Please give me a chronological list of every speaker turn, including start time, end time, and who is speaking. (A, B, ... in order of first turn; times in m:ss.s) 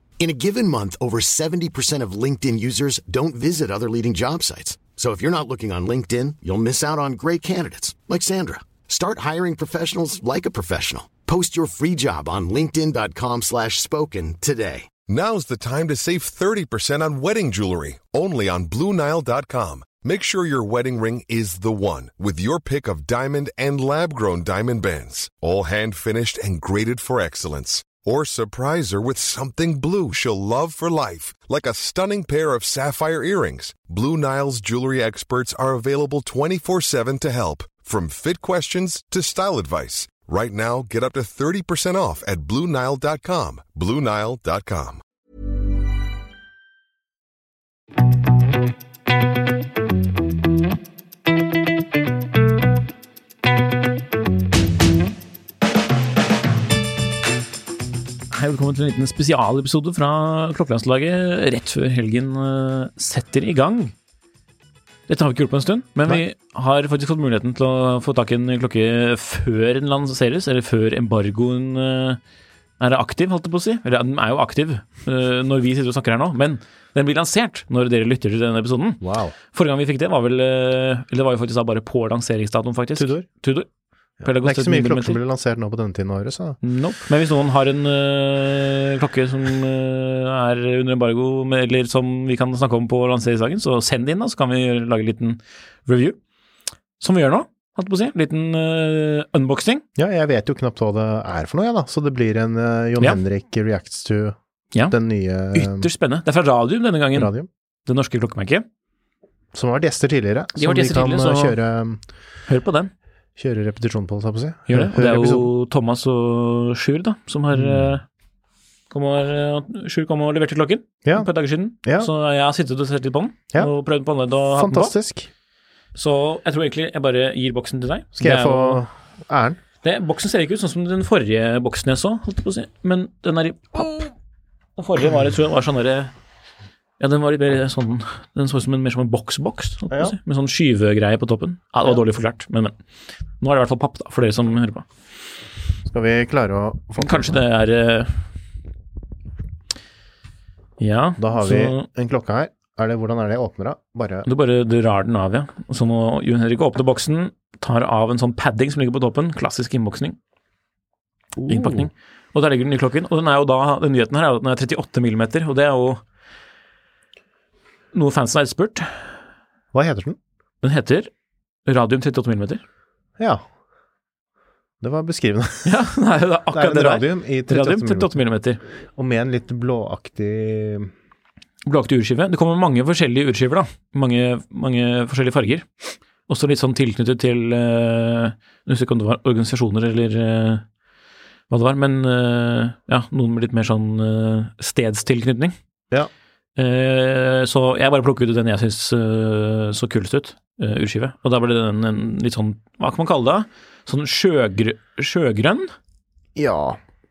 0:00.2-0:14.9 A
0:15.1-0:45.0 B
0:58.3-1:03.9 C
1:05.1-1:12.2 C
1:12.8-1:19.0 C
1:19.0-1:19.4 D
1:19.5-1:23.7 C
1:23.0-1:23.3 D
1:24.2-1:26.6 D
1:24.2-1:25.2 C
1:26.6-1:36.2 C
1:37.0-1:39.8 C
1:40.0-1:44.4 D
1:44.7-1:47.3 C
1:44.9-1:45.9 D
1:47.1-1:47.5 D
1:47.8-1:48.7 C
1:49.5-1:52.0 D
1:50.6-1:51.6 C
1:52.5-1:52.9 C
1:53.4-1:55.5 D
1:54.7-1:58.0 C
1:57.5-1:58.0 D
1:58.9-2:05.0 C
2:01.0-2:01.3 D
2:01.8-2:02.1 D
2:04.5-2:05.3 D
2:06.0-2:08.8 C
2:08.2-2:09.6 D
2:09.8-2:14.1 C
2:14.8-2:16.1 C
2:17.0-2:22.7 C
2:19.9-2:20.2 D
2:23.4-2:24.8 C
2:25.8-2:27.4 D
2:27.0-2:28.1 C
2:30.8-2:31.8 C
2:31.2-2:34.3 D
2:34.2-2:40.2 C
2:41.4-2:41.9 D
2:41.5-2:46.0 C
2:47.9-2:49.0 C
2:49.7-2:50.2 D
2:50.6-2:51.1 C
2:51.7-2:52.6 C
2:54.8-2:55.8 D
2:55.6-2:58.6 C
2:56.5-2:58.2 D
2:59.0-3:00.9 D
3:01.6-3:05.7 C
3:06.3-3:10.6 C
3:11.5-3:15.5 C
3:16.6-3:25.7 C
3:26.4-3:26.8 D